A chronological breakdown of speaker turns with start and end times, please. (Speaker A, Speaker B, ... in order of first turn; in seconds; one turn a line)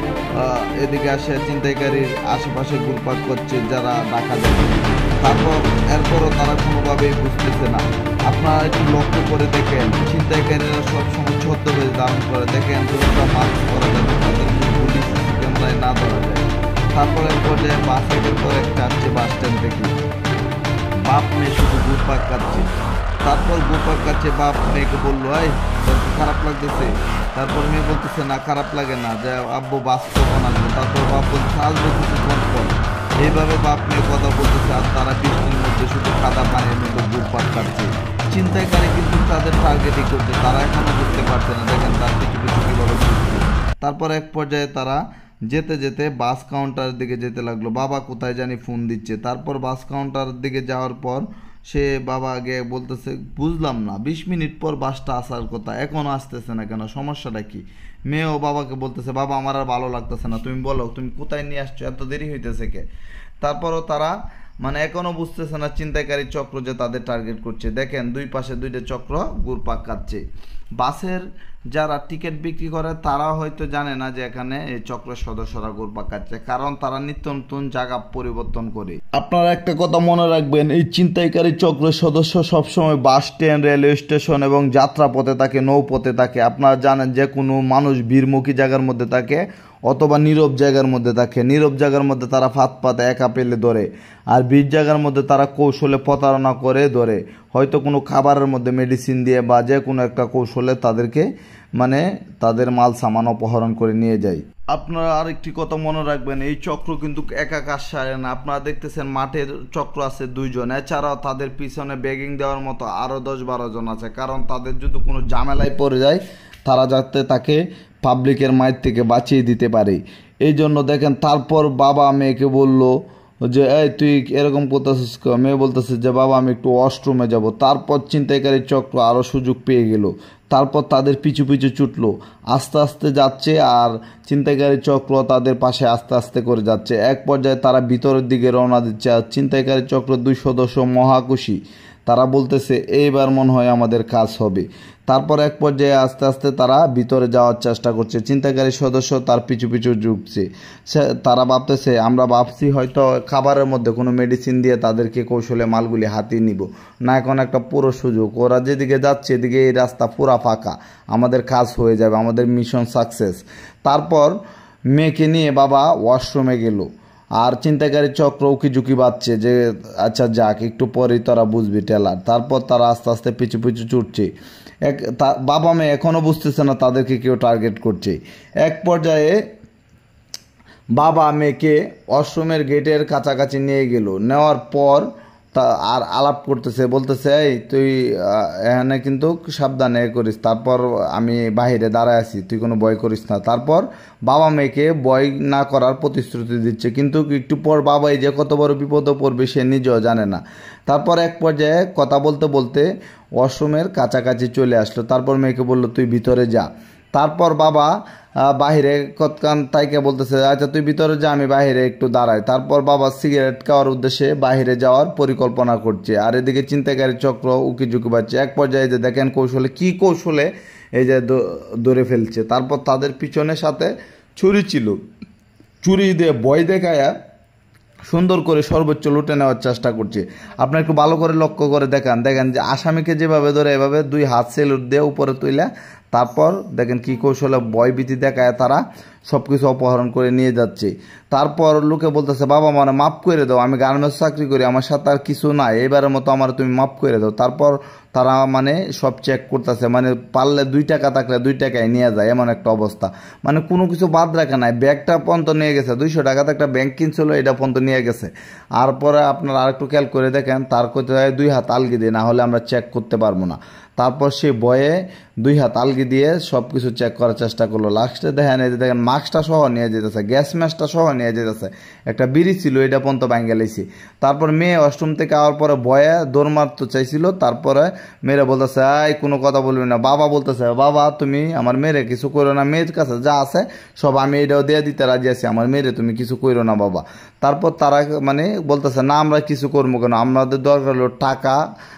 Speaker A: 0.3-19.9
Speaker A: 21.1-22.7
Speaker A: 23.2-62.9
Speaker A: 63.4-70.2
Speaker A: 70.8-101.3
Speaker A: 101.8-164.4
Speaker A: 164.9-166.9
Speaker A: 167.4-174.3
Speaker A: 174.8-179.4
Speaker A: 181.0-207.9
Speaker A: 208.4-225.0
Speaker A: 225.8-227.1
Speaker A: 228.1-291.6